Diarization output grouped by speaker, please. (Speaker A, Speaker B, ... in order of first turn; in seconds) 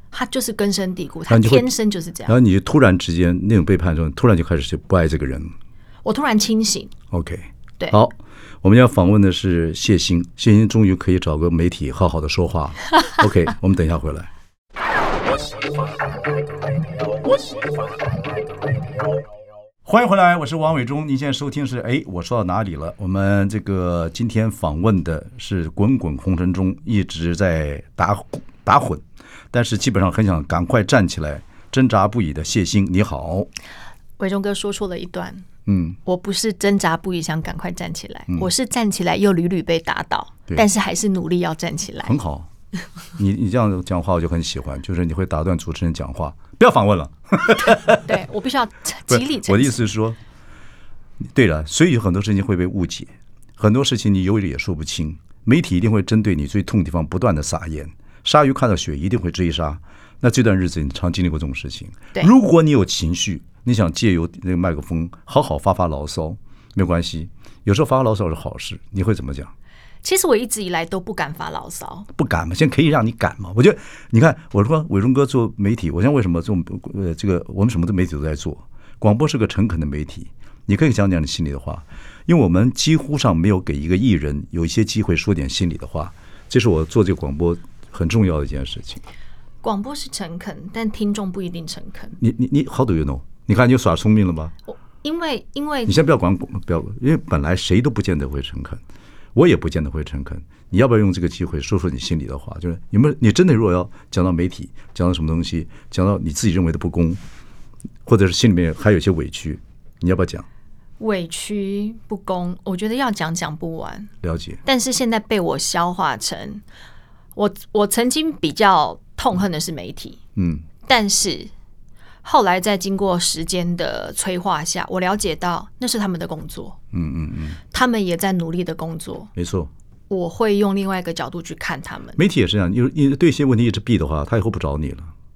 Speaker A: 0.1-2.4, 6.0-6.9, 34.2-35.4, 36.0-42.1, 48.0-49.8, 70.0-72.1, 89.6-92.2, 94.7-96.0, 111.0-114.1, 114.6-116.6, 117.3-120.2, 120.8-121.5, 122.2-126.8, 127.7-129.3, 130.1-132.2
Speaker B: 1.3-1.7, 2.3-5.5, 7.1-14.3, 19.8-33.5, 35.6-36.0, 42.0-42.5, 43.2-48.1, 49.1-50.2, 51.3-69.5, 72.1-89.0, 92.2-94.5, 95.9-98.8, 99.3-107.2, 108.0-110.5, 114.2-114.6, 120.3-120.7, 126.9-127.6, 129.3-129.7, 132.2-135.1